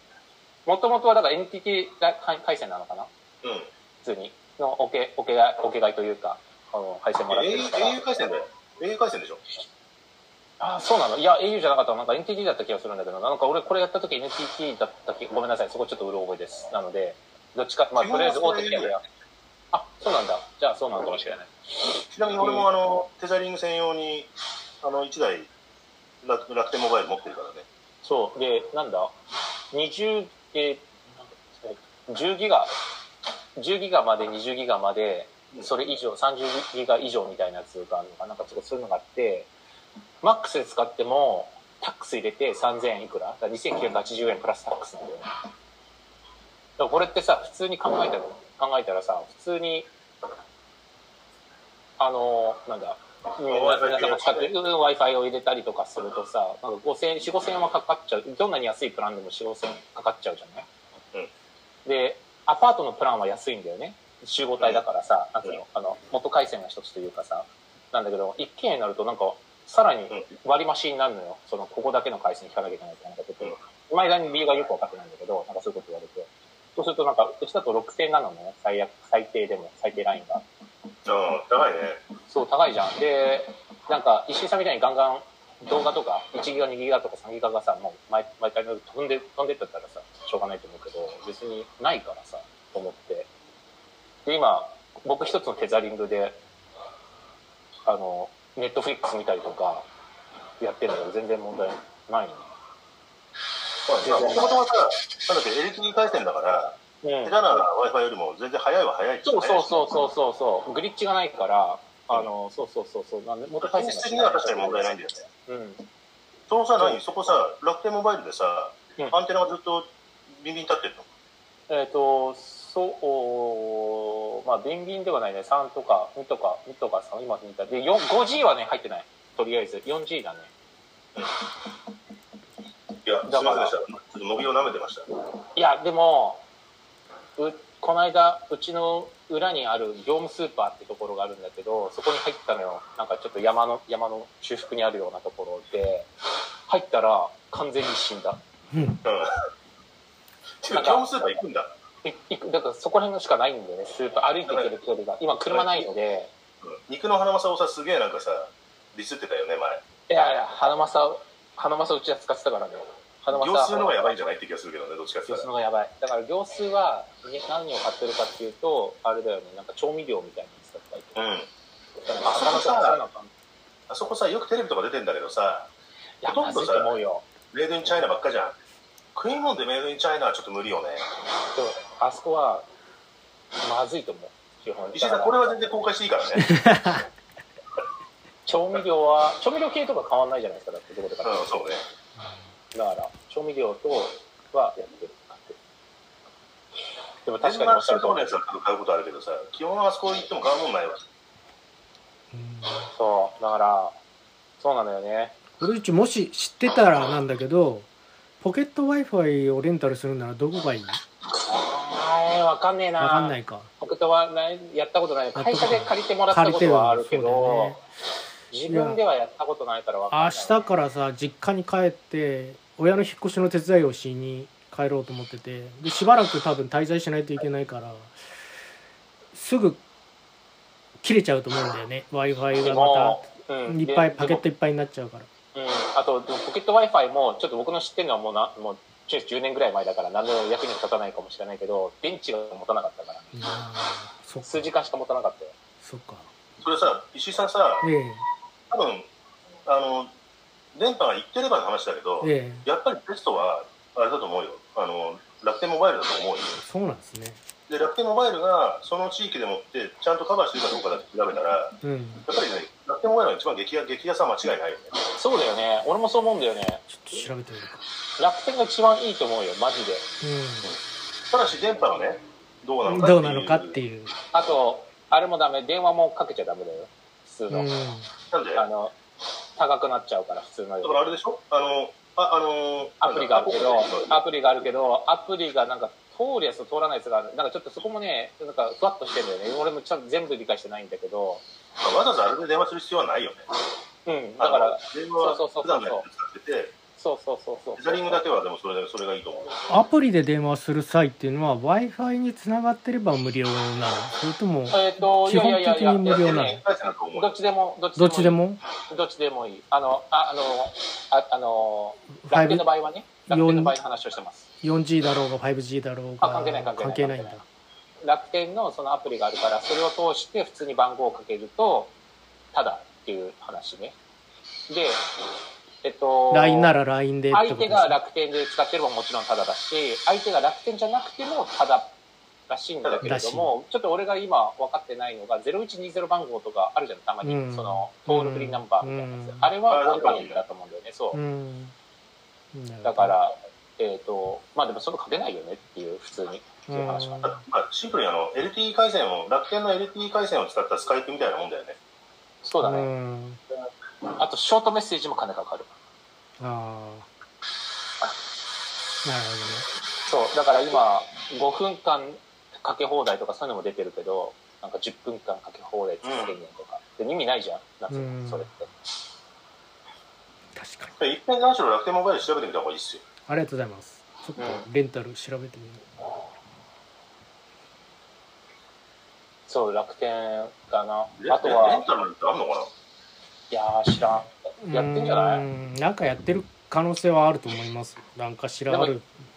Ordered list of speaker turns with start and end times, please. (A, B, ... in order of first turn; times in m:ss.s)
0:00.6-0:03.1 A
0:03.4-0:03.7 B
0:04.0-0:08.0 A
0:07.3-0:09.4 B
0:10.6-0:19.0 A
0:18.0-0:18.9 B
0:19.7-0:21.5 A
0:22.1-0:25.5 B
0:22.4-0:22.7 A
0:26.2-0:27.6 B
0:28.0-0:29.1 A
0:29.7-0:32.7 A
0:33.6-0:39.5 A
0:40.2-0:45.3 A
0:46.8-0:49.9 A
0:52.0-1:00.7 A
0:53.5-0:54.5 B
1:01.8-1:20.4 A
1:21.0-1:22.0 B
1:22.3-1:33.3 A
1:34.2-1:36.4 A
1:37.8-1:39.9 A
1:40.6-1:42.5 A
1:43.9-1:50.0 B
1:44.0-1:44.6 A
1:47.0-1:47.6 A
1:49.2-1:55.9 A
1:53.6-1:55.2 B
1:56.5-2:01.1 B
2:01.7-2:10.5 A
2:13.0-2:15.1 B
2:13.3-2:13.7 A
2:15.5-2:16.4 A
2:17.4-2:26.1 A
2:26.7-2:28.4 A
2:28.7-2:29.0 C
2:29.0-2:29.3 B
2:30.6-2:31.7 B
2:30.7-2:31.2 A
2:32.0-2:36.3 A
2:34.5-2:34.7 B
2:35.5-2:35.9 B
2:36.6-2:39.8 B
2:40.1-2:44.0 A
2:43.3-2:45.5 B
2:45.2-2:51.2 A
2:51.2-2:51.5 B
2:52.0-2:53.3 A
2:52.2-2:53.0 B
2:53.9-2:55.7 B
2:56.2-2:57.2 A
2:56.3-2:56.9 B
2:57.5-2:58.6 B
2:59.1-3:01.0 B
3:01.5-3:02.7 A
3:03.6-3:05.8 A
3:04.9-3:06.5 B
3:06.4-3:07.0 C
3:08.4-3:11.7 A
3:11.2-3:11.8 B
3:12.7-3:15.6 A
3:17.2-3:18.3 A
3:17.4-3:21.0 B
3:22.3-3:22.9 C
3:22.9-3:24.0 A
3:24.6-3:25.4 A
3:25.6-3:27.9 C
3:28.4-3:31.0 C
3:31.3-3:37.8 A
3:33.0-3:33.7 C
3:35.3-3:37.8 C
3:38.5-3:40.7 A
3:38.7-3:39.0 C
3:40.1-3:48.2 C
3:49.3-3:49.8 C
3:51.0-3:55.3 C
3:52.6-3:54.4 A
3:55.5-4:03.4 A
4:03.3-4:04.7 C
4:04.4-4:05.5 A
4:05.8-4:06.3 C
4:06.6-4:07.9 B
4:07.8-4:08.2 C
4:08.7-4:09.1 B
4:09.6-4:10.1 B
4:10.7-4:16.6 B
4:12.2-4:12.6 C
4:16.6-4:17.4 C
4:17.7-4:25.0 B
4:21.8-4:22.2 C
4:25.2-4:27.2 A
4:26.9-4:27.8 C
4:28.2-4:30.0 A
4:30.2-4:30.7 C
4:31.3-4:33.8 B
4:32.8-4:34.1 C
4:34.3-4:37.7 A
4:37.5-4:38.1 C
4:38.3-4:38.6 B
4:38.5-4:38.9 A
4:39.6-4:41.1 A
4:40.8-4:44.2 B
4:43.0-4:51.4 A
4:51.8-4:53.4 B
4:54.0-4:56.0 A
4:54.4-4:56.7 B
4:57.0-4:58.2 A
4:57.8-4:59.6 B
4:59.7-5:06.6 C
5:04.7-5:06.6 A
5:06.1-5:07.4 B
5:07.1-5:14.5 A
5:08.0-5:08.6 C
5:12.2-5:12.6 C
5:13.3-5:13.7 C
5:14.6-5:17.4 C
5:16.2-5:17.4 A
5:18.0-5:21.9 A
5:22.5-5:24.0 A
5:24.7-5:25.0 A
5:25.8-5:26.7 A
5:26.3-5:28.0 C
5:27.3-5:31.9 A
5:32.5-5:41.2 A
5:32.8-5:33.1 B
5:33.0-5:33.5 C
5:37.2-5:39.5 C
5:39.7-5:40.4 B
5:41.1-5:41.7 C
5:42.5-5:43.2 C
5:42.8-5:47.3 A
5:46.7-5:47.4 C
5:47.2-5:51.8 B
5:52.4-5:52.9 A
5:52.6-5:53.4 C
5:54.1-5:55.7 A
5:56.4-5:57.1 C
5:59.0-5:59.6 C
6:00.0-6:08.7 A
6:06.0-6:06.4 B
6:07.9-6:08.5 C
6:10.5-6:11.0 C
6:11.0-6:13.0 B
6:13.3-6:15.8 C
6:14.4-6:14.6 A
6:19.5-6:21.8 A
6:21.2-6:22.7 B
6:23.5-6:25.4 A
6:24.6-6:29.1 C
6:28.7-6:28.9 A